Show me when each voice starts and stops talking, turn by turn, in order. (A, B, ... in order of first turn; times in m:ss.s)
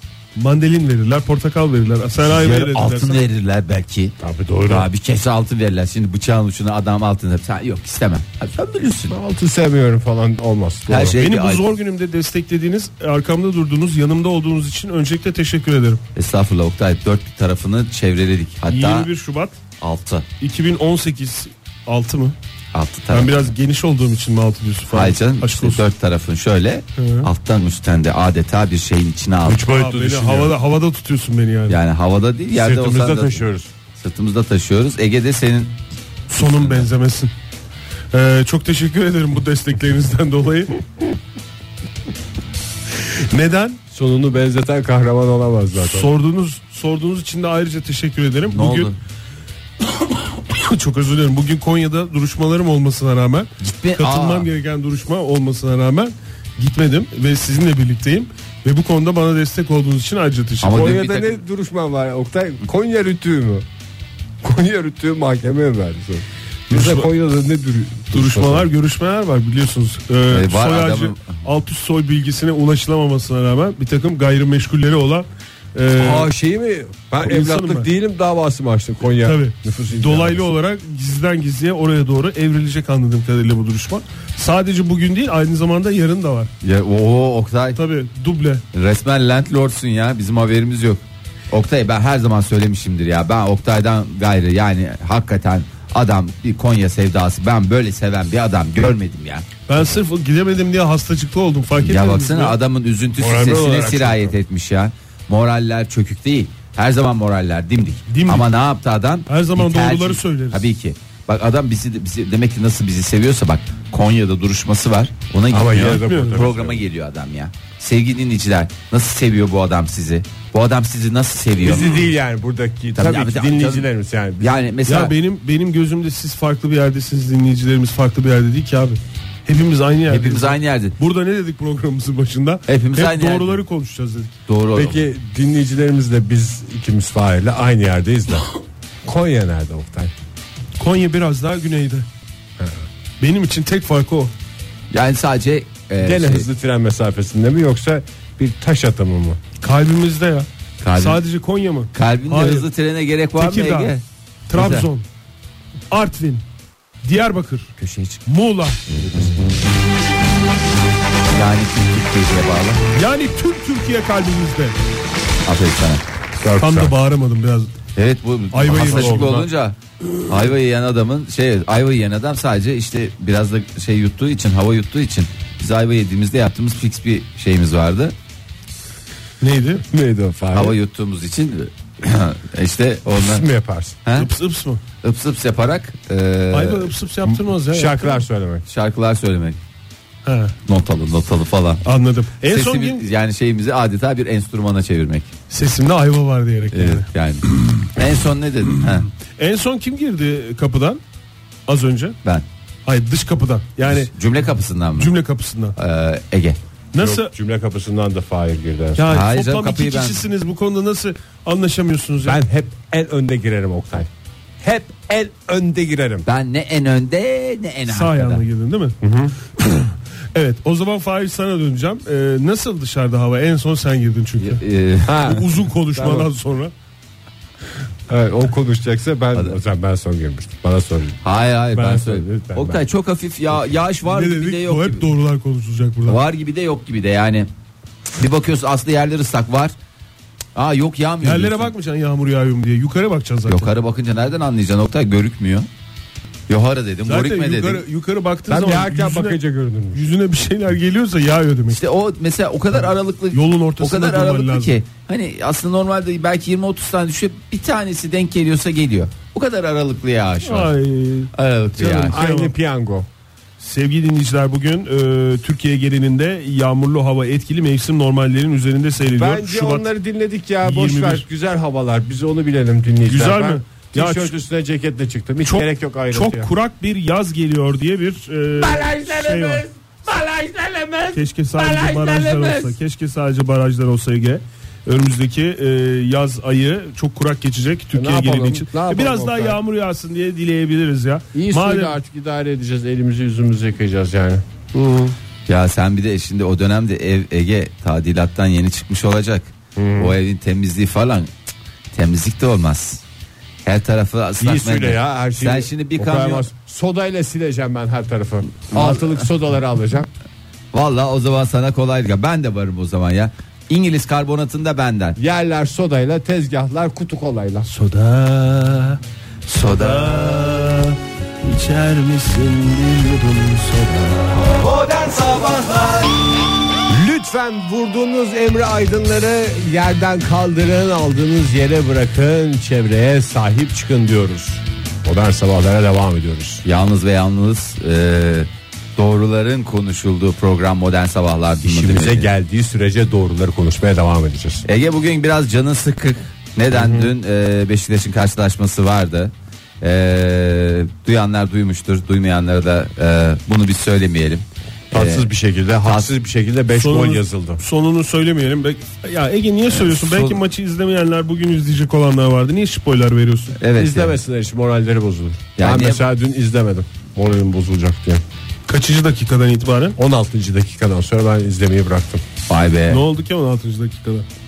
0:00.4-0:03.2 A
0:02.3-0:04.2 B
0:04.2-0:04.9 C
0:04.7-0:09.2 B
0:09.1-0:11.2 C
0:10.9-0:11.6 B
0:11.2-0:16.0 A
0:16.2-0:19.1 B
0:18.7-0:19.6 A
0:19.8-0:20.3 B
0:20.4-0:22.4 A
0:22.7-0:23.3 B
0:23.1-0:25.8 A
0:24.9-0:29.6 B
0:27.0-0:27.3 A
0:29.4-0:30.6 C
0:29.7-0:31.8 A
0:31.7-0:33.4 B
0:32.5-0:33.7 C
0:34.0-0:35.8 B
0:36.3-0:37.3 A
0:36.4-0:36.9 B
0:38.1-0:40.8 A
0:43.1-0:43.8 A
0:43.9-0:46.1 C
0:45.8-0:48.9 A
0:48.5-0:49.0 B
0:50.5-1:01.0 A
0:53.6-0:54.5 B
1:00.6-1:01.4 B
1:00.7-1:03.7 C
1:04.4-1:08.7 C
1:06.7-1:07.1 A
1:08.1-1:16.3 A
1:10.3-1:11.4 B
1:16.0-1:20.5 C
1:17.3-1:17.9 A
1:19.2-1:26.5 A
1:26.6-1:27.8 B
1:27.8-1:28.6 A
1:28.7-1:39.5 B
1:39.7-1:42.6 A
1:41.8-2:01.9 B
1:43.2-1:44.4 C
1:48.1-1:48.5 A
1:49.3-1:50.6 A
1:55.5-1:56.8 C
1:56.0-1:56.4 A
2:01.6-2:04.5 C
2:03.0-2:03.9 B
2:04.4-2:05.1 B
2:04.9-2:14.4 A
2:10.1-2:11.0 B
2:12.7-2:13.6 B
2:14.5-2:15.0 B
2:14.8-2:18.5 C
2:19.0-2:20.1 C
2:20.8-2:22.1 A
2:23.2-2:24.3 A
2:24.9-2:26.5 B
2:26.0-2:29.4 C
2:29.6-2:32.7 A
2:30.8-2:31.2 B
2:31.9-2:34.0 B
2:33.4-2:33.9 A
2:34.5-2:35.1 A
2:34.5-2:34.9 B
2:35.9-2:36.4 A
2:37.0-2:37.7 A
2:37.8-2:38.2 B
2:38.3-2:38.8 A
2:41.3-2:42.8 B
2:42.9-2:44.8 A
2:45.5-2:46.0 B
2:46.4-2:47.0 C
2:46.6-2:47.7 A
2:48.0-2:49.8 B
2:48.5-2:49.5 A
2:48.8-2:49.3 C
2:50.3-2:58.2 B
2:59.4-2:59.8 A
2:59.8-3:00.8 C
3:00.5-3:03.5 B
3:03.1-3:04.0 C
3:04.0-3:04.3 B
3:04.1-3:04.8 A
3:05.0-3:06.9 B
3:06.5-3:08.2 A
3:07.3-3:08.6 C
3:08.7-3:09.6 B
3:10.2-3:10.6 A
3:10.7-3:11.8 B
3:11.8-3:13.0 A
3:12.5-3:15.3 B
3:15.5-3:17.1 A
3:16.7-3:19.1 B
3:19.4-3:21.0 A
3:21.7-3:22.2 A
3:22.9-3:24.1 A
3:23.9-3:25.1 B
3:25.0-3:25.8 A
3:25.8-3:26.6 B
3:26.9-3:27.3 A
3:27.0-3:29.1 C
3:29.0-3:32.4 A
3:29.1-3:30.2 B
3:32.2-3:34.1 C
3:34.6-3:36.3 C
3:36.3-3:38.4 B
3:37.9-3:39.0 A
3:39.0-3:39.3 C
3:39.6-3:44.6 A
3:44.4-3:45.2 B
3:45.1-3:46.3 C
3:45.2-3:46.7 A
3:48.1-3:51.2 C
3:51.2-3:55.0 B
3:51.7-3:52.8 C
3:54.0-3:56.2 A
3:56.1-3:57.5 B
3:58.2-3:59.8 B
4:00.6-4:01.7 B
4:01.2-4:03.7 A
4:03.5-4:05.7 B
4:06.5-4:07.8 B
4:07.1-4:09.4 A
4:08.5-4:10.1 C
4:09.9-4:11.8 A
4:11.7-4:20.7 B
4:13.3-4:14.8 A
4:20.4-4:22.5 A
4:21.3-4:22.2 B
4:22.0-4:23.1 C
4:23.6-4:29.8 A
4:29.1-4:36.5 C
4:30.6-4:31.2 A
4:33.1-4:34.4 A
4:35.4-4:39.7 A
4:38.6-4:42.8 C
4:41.1-4:52.0 A
4:47.9-4:49.6 C
4:51.3-4:54.4 C
4:54.7-4:55.2 A
4:55.5-5:01.3 B
4:59.8-5:00.2 C
5:01.9-5:03.0 B
5:03.6-5:06.5 B
5:04.4-5:10.1 C
5:08.7-5:09.3 B
5:10.7-5:15.2 B
5:15.2-5:17.7 C
5:17.7-5:18.8 A
5:19.5-5:26.2 C
5:26.9-5:36.6 C
5:36.6-5:42.3 B
5:41.6-5:44.6 C
5:44.6-5:55.3 B
5:46.7-5:47.1 C
5:54.9-5:57.6 C
5:56.7-6:03.6 A
5:59.7-6:00.4 B
6:03.6-6:04.2 B
6:03.8-6:08.2 C
6:05.6-6:06.0 B
6:08.7-6:10.0 A
6:10.0-6:12.2 C
6:12.5-6:13.0 B
6:12.9-6:14.3 A